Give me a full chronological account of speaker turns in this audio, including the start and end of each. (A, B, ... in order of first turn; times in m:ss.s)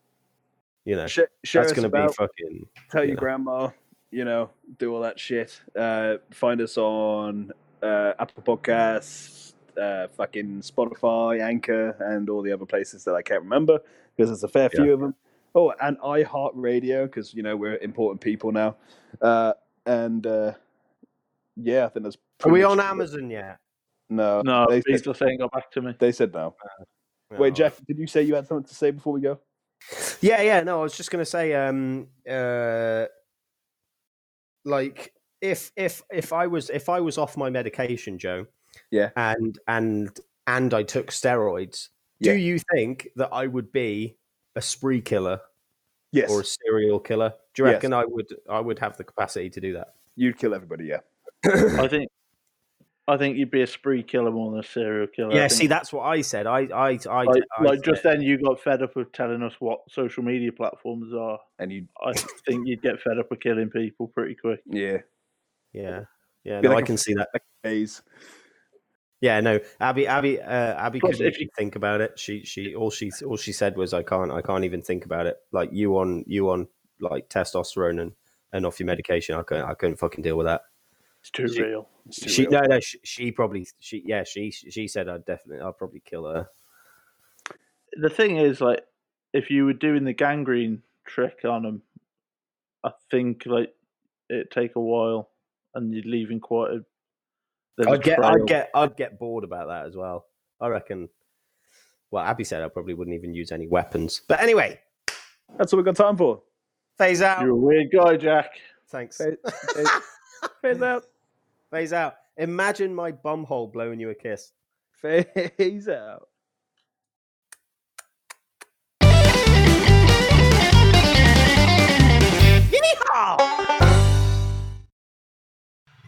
0:00.8-0:03.2 A
0:01.1-0:02.2 B
0:02.9-0:20.6 B
0:21.6-0:23.0 B
0:22.4-0:23.6 A
0:24.1-0:25.0 B
0:24.4-0:26.0 C
0:26.0-0:26.6 B
0:27.3-0:27.7 A
0:27.4-0:29.4 B
0:30.0-0:33.1 A
0:34.6-0:38.5 A
0:39.1-0:45.4 A
0:46.1-0:46.4 B
0:46.3-0:49.9 A
0:47.6-0:47.9 B
0:50.2-0:51.0 B
0:51.4-0:51.8 A
0:51.7-0:52.1 C
0:53.1-0:55.7 C
0:55.3-0:58.0 A
0:57.2-1:01.4 C
1:01.6-1:01.9 B
1:02.0-1:04.6 C
1:04.7-1:05.0 B
1:05.7-1:07.3 A
1:06.6-1:08.0 B
1:09.2-1:20.6 A
1:11.0-1:11.5 C
1:21.2-1:21.9 C
1:22.1-1:22.6 B
1:22.2-1:26.5 A
1:28.0-1:31.8 C
1:32.8-1:33.7 C
1:34.3-1:36.8 C
1:37.8-1:38.5 C
1:37.8-1:41.1 A
1:42.1-1:44.8 A
1:45.6-1:46.4 B
1:47.0-1:47.5 A
1:47.4-1:48.6 C
1:48.9-1:50.0 A
1:49.2-1:50.0 B
1:50.6-1:51.0 B
1:51.7-1:54.5 A
1:55.0-1:56.3 B
2:02.7-2:03.6 A